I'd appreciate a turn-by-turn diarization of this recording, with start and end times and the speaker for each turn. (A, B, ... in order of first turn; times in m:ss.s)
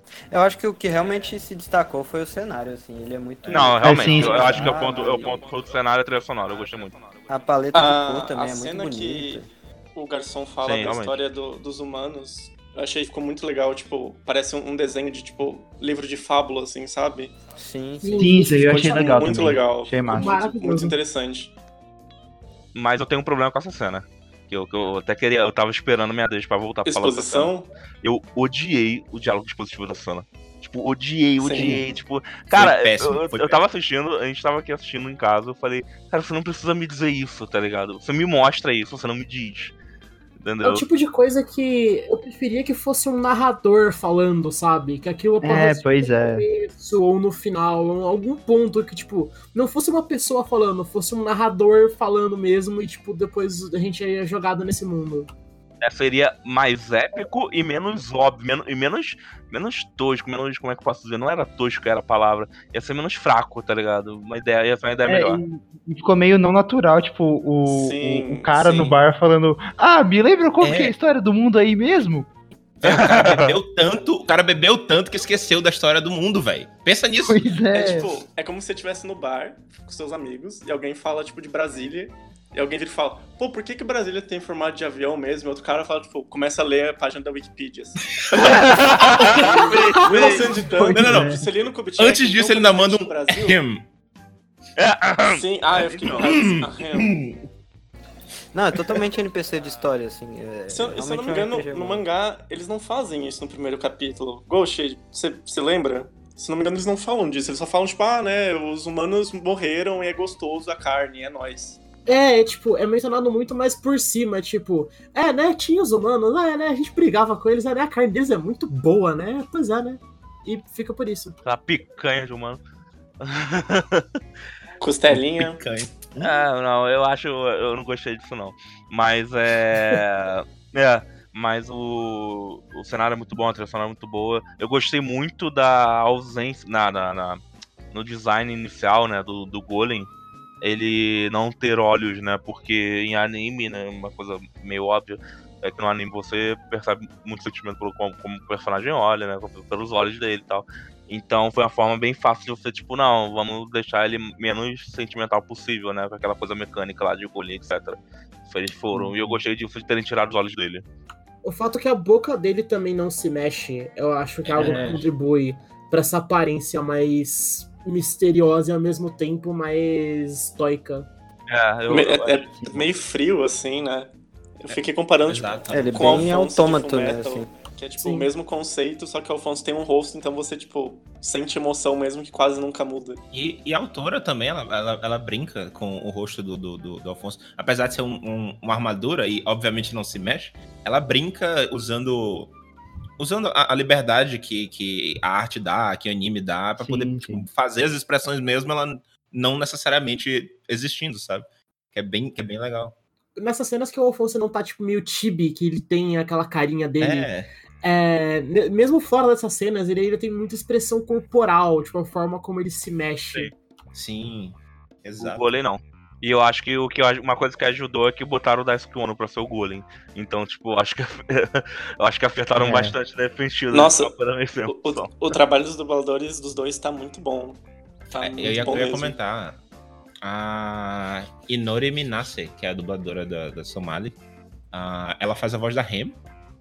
0:00.3-0:05.4 A
0:03.5-0:07.0 B
0:03.8-0:04.8 C
0:07.3-0:09.5 A
0:07.7-0:17.3 D
0:10.6-0:11.2 B
0:17.6-0:18.5 A
0:18.0-0:18.7 E
0:18.2-0:20.4 C
0:18.5-0:21.6 D
0:20.1-0:21.0 E
0:22.7-0:27.5 B
0:26.8-0:27.7 D
0:28.0-0:39.7 B
0:31.4-0:31.8 D
0:32.5-0:33.6 F
0:40.4-0:40.8 B
0:40.6-0:55.3 E
0:45.4-0:46.4 C
0:55.8-1:05.4 B
1:05.1-1:12.3 C
1:07.7-1:09.0 D
1:10.6-1:10.9 F
1:12.8-1:17.6 F
1:12.8-1:13.6 B
1:17.2-1:18.2 C
1:17.7-1:33.6 D
1:28.1-1:29.3 F
1:28.4-1:30.6 B
1:29.4-1:29.9 E
1:30.7-1:31.4 F
1:30.9-1:31.4 C
1:32.0-1:33.9 F
1:34.8-1:35.4 B
1:35.2-1:37.1 D
1:35.8-1:37.5 F
1:38.5-1:42.0 A
1:40.7-1:51.8 D
1:52.1-2:01.4 E
2:01.4-2:02.6 B
2:03.2-2:04.1 B
2:04.8-2:05.6 D
2:05.1-2:06.3 F
2:06.2-2:17.4 B
2:17.9-2:20.1 B
2:20.6-2:40.8 B
2:38.9-2:39.4 C
2:41.4-2:51.1 E
2:44.5-2:45.0 F
2:44.6-2:45.0 C
2:51.5-2:52.5 B
2:51.9-3:03.2 D
2:54.7-2:56.4 F
2:55.7-2:57.5 A
2:58.0-2:58.3 E
3:03.3-3:12.6 F
3:13.2-3:23.0 F
3:16.8-3:17.5 C
3:23.4-3:27.3 E
3:27.0-3:27.5 F
3:27.8-3:33.5 E
3:33.9-3:35.5 F
3:35.2-3:45.3 B
3:42.6-3:43.0 C
3:43.7-3:44.1 D
3:44.7-3:49.2 D
3:48.2-3:49.6 F
3:50.2-3:54.2 F
3:54.7-3:56.2 F